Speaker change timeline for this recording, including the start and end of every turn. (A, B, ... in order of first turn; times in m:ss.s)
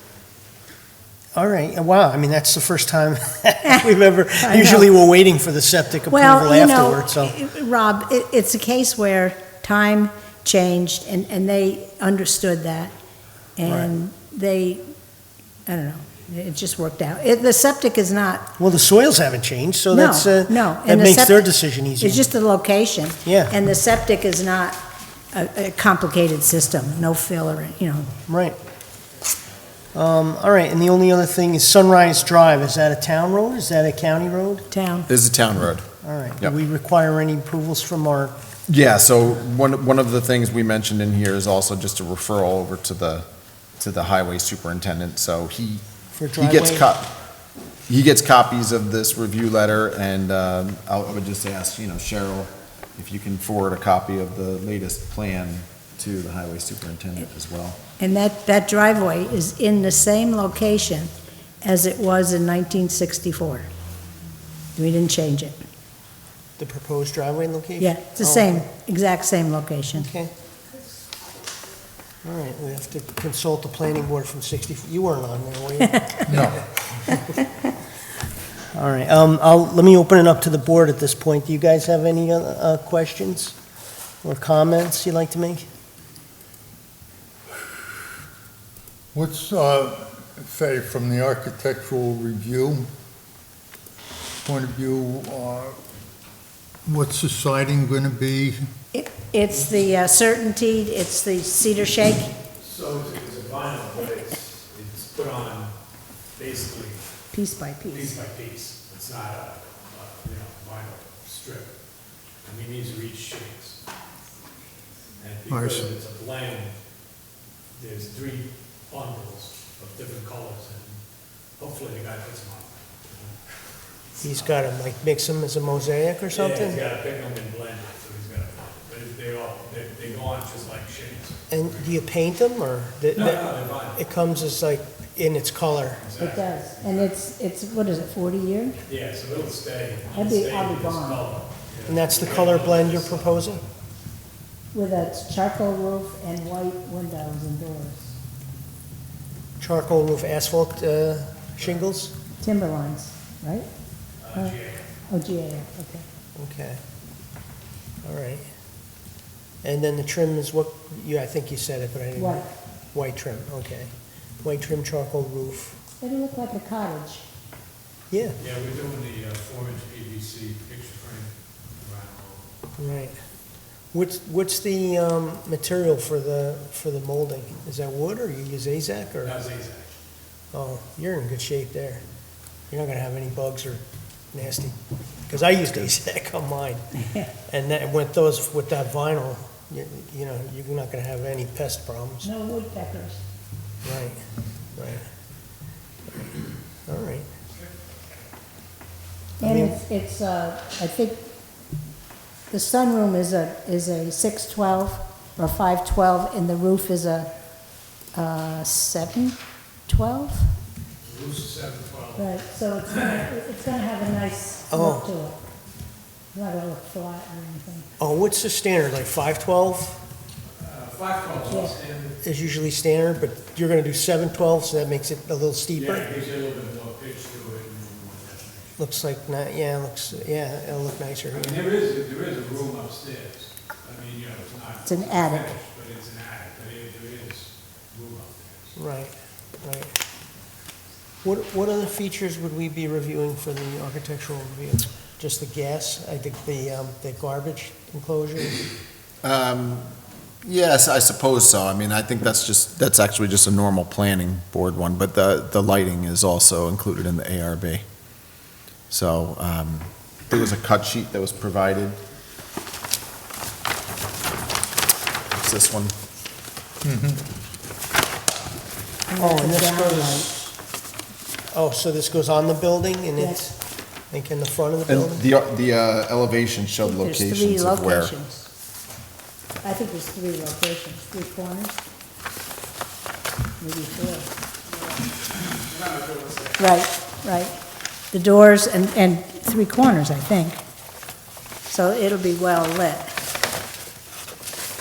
0:01.3-0:07.4 A
0:04.4-0:04.9 B
0:06.1-0:12.9 B
0:13.6-0:14.8 B
0:13.6-0:13.9 A
0:15.7-0:18.5 B
0:18.6-0:22.3 A
0:19.9-0:24.8 B
0:23.2-0:23.6 A
0:25.3-0:28.1 B
0:28.3-0:28.6 A
0:29.9-0:34.7 A
0:34.7-0:35.1 B
0:35.1-0:35.9 C
0:36.0-0:38.4 A
0:38.7-0:43.3 C
0:43.8-0:45.8 C
0:46.1-0:46.9 A
0:46.4-0:47.1 C
0:47.9-0:57.8 C
0:58.0-1:03.7 B
1:04.8-1:05.6 B
1:06.6-1:08.6 A
1:07.8-1:10.1 B
1:10.0-1:10.3 A
1:12.2-1:16.5 A
1:15.9-1:16.3 B
1:16.3-1:17.2 D
1:18.7-1:23.6 A
1:24.2-1:25.6 A
1:29.1-1:32.9 D
1:34.4-1:35.8 D
1:36.9-1:38.7 D
1:38.9-1:42.3 B
1:42.6-1:45.7 E
1:46.4-1:47.1 E
1:47.3-1:48.1 B
1:47.9-1:51.7 E
1:52.4-1:53.8 E
1:55.2-1:56.8 E
1:55.5-1:55.9 A
1:57.8-2:01.0 E
2:01.6-2:03.5 E
2:04.2-2:06.8 A
2:04.3-2:04.5 E
2:06.3-2:12.0 E
2:11.5-2:16.0 A
2:13.1-2:14.0 E
2:16.0-2:16.8 E
2:16.2-2:18.8 B
2:18.9-2:23.7 E
2:20.1-2:21.2 B
2:21.9-2:23.6 A
2:24.7-2:28.1 B
2:29.6-2:32.1 A
2:32.4-2:33.7 B
2:34.2-2:34.9 E
2:35.1-2:36.0 B
2:36.4-2:36.8 A
2:38.0-2:38.5 A
2:39.6-2:45.8 A
2:42.2-2:42.5 B
2:46.0-2:47.2 B
2:48.1-2:48.4 A
2:48.4-2:52.4 E
2:52.8-2:53.2 A
2:53.9-2:59.4 A
2:59.2-3:00.0 E
3:00.5-3:02.0 A
3:02.7-3:03.8 A
3:04.3-3:12.3 A
3:12.2-3:13.2 B
3:13.8-3:15.1 A
3:16.9-3:17.3 A
3:19.4-3:19.8 A
3:19.4-3:21.3 B
3:22.5-3:27.3 B
3:28.1-3:30.5 B
3:31.0-3:33.2 E
3:32.2-3:35.4 B
3:34.7-3:35.1 A
3:36.3-3:37.9 B
3:38.0-3:40.0 A
3:40.6-3:42.2 E
3:41.5-3:41.8 B
3:42.2-3:46.1 A
3:45.7-3:48.8 E
3:48.8-3:51.6 A
3:51.3-3:58.8 E
3:54.9-3:55.5 B
3:58.8-3:59.9 A
4:01.2-4:08.6 A
4:09.2-4:09.9 C
4:10.4-4:17.8 C
4:18.9-4:22.0 C
4:25.3-4:25.9 C
4:26.8-4:27.2 D
4:29.1-4:30.5 B
4:29.2-4:30.3 A
4:31.5-4:35.2 A
4:33.2-4:33.4 B
4:34.9-4:38.2 C
4:36.8-4:38.5 B
4:39.6-4:41.8 B
4:43.6-4:44.3 B
4:45.3-4:46.6 E
4:46.6-4:47.6 B
4:48.1-4:50.6 B
4:51.7-4:53.2 B